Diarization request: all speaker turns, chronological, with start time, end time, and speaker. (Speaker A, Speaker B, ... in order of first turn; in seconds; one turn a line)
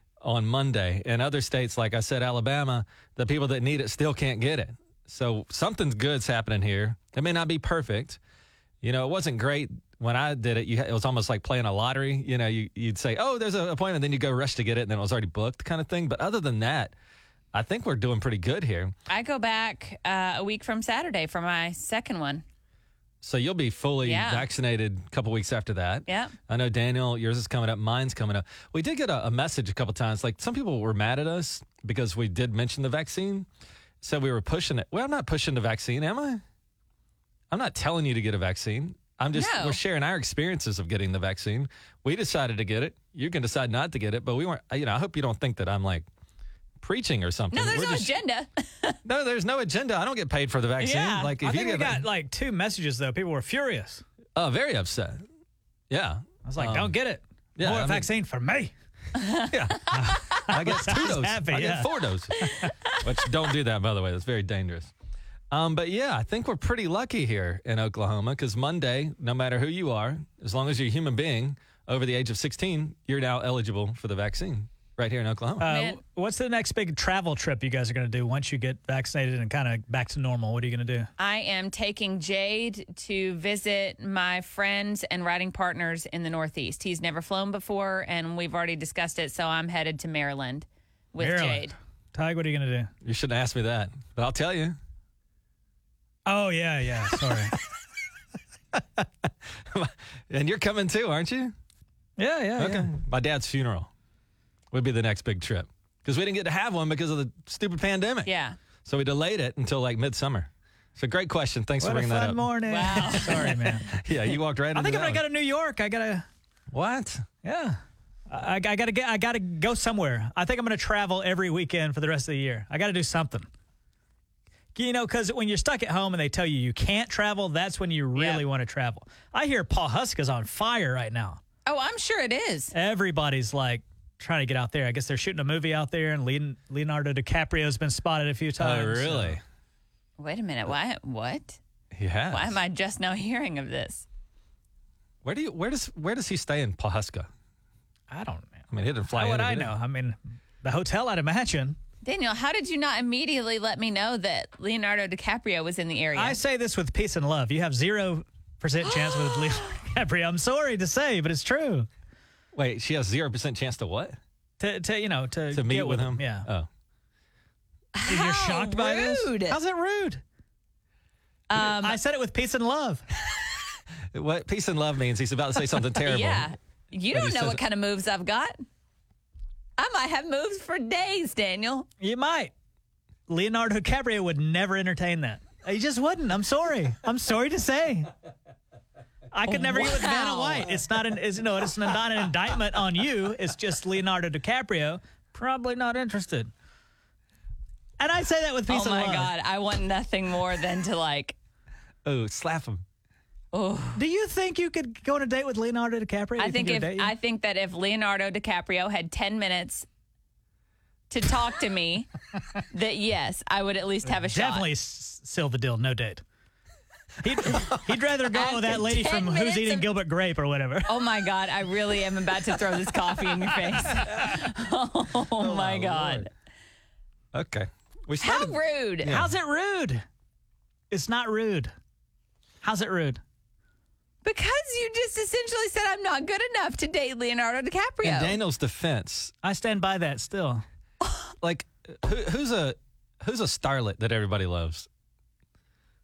Speaker A: 0.2-8.2
Speaker A: 8.8-16.9
Speaker A: 17.5-18.9
Speaker B: 19.1-22.4
Speaker A: 23.2-33.5
Speaker B: 24.0-24.5
Speaker B: 26.1-26.4
Speaker A: 34.0-36.4
Speaker A: 37.5-46.1
Speaker B: 39.3-39.8
Speaker A: 46.8-48.1
Speaker B: 47.5-49.0
Speaker A: 49.0-52.1
Speaker B: 50.8-51.3
Speaker C: 51.4-54.0
Speaker A: 54.4-55.2
Speaker A: 55.9-56.9
Speaker C: 56.5-58.7
Speaker A: 57.6-58.1
Speaker B: 59.2-59.5
Speaker A: 59.5-64.9
Speaker C: 59.9-62.7
Speaker A: 65.5-75.7
Speaker C: 75.6-81.1
Speaker B: 75.7-76.0
Speaker B: 81.2-91.7
Speaker C: 91.2-92.9
Speaker A: 93.0-94.8
Speaker C: 96.3-97.5
Speaker A: 98.7-101.5
Speaker C: 102.2-102.9
Speaker A: 102.6-103.9
Speaker A: 104.7-108.3
Speaker B: 108.3-108.6
Speaker A: 108.8-112.5
Speaker C: 111.8-113.9
Speaker B: 112.7-113.7
Speaker A: 113.8-115.2
Speaker C: 114.7-116.2
Speaker A: 116.7-117.3
Speaker C: 117.4-123.5
Speaker C: 124.8-131.4
Speaker B: 128.2-128.4
Speaker B: 131.7-132.7
Speaker C: 132.7-139.4
Speaker A: 138.6-139.4
Speaker B: 140.2-141.6
Speaker A: 141.9-142.6
Speaker B: 142.3-144.1
Speaker A: 145.2-147.3
Speaker C: 148.1-151.8
Speaker A: 148.7-149.7
Speaker B: 152.0-156.4
Speaker C: 156.2-161.9
Speaker B: 158.9-159.7
Speaker A: 162.5-164.2
Speaker C: 164.6-166.5
Speaker A: 165.5-166.7
Speaker B: 167.9-169.6
Speaker C: 168.1-170.2
Speaker B: 171.5-172.0
Speaker C: 171.5-173.0
Speaker A: 174.1-176.5
Speaker B: 176.0-178.6
Speaker A: 177.1-177.6
Speaker B: 179.8-181.9
Speaker C: 182.0-182.5
Speaker C: 183.3-188.1
Speaker C: 189.3-196.5
Speaker B: 189.5-190.9
Speaker C: 198.0-199.3
Speaker B: 198.7-201.4
Speaker A: 202.1-202.8
Speaker B: 203.5-204.0
Speaker C: 203.9-207.1
Speaker B: 206.4-209.9
Speaker B: 211.1-212.1
Speaker B: 212.7-214.7
Speaker C: 214.2-216.2
Speaker C: 217.2-220.9
Speaker B: 218.3-219.9
Speaker B: 220.9-226.3
Speaker A: 225.4-226.3
Speaker A: 227.3-229.3
Speaker B: 228.2-229.2
Speaker C: 229.1-230.0
Speaker C: 230.9-231.7
Speaker C: 232.6-233.2
Speaker B: 234.2-238.4
Speaker A: 238.0-239.3
Speaker C: 239.4-240.6
Speaker A: 241.4-244.9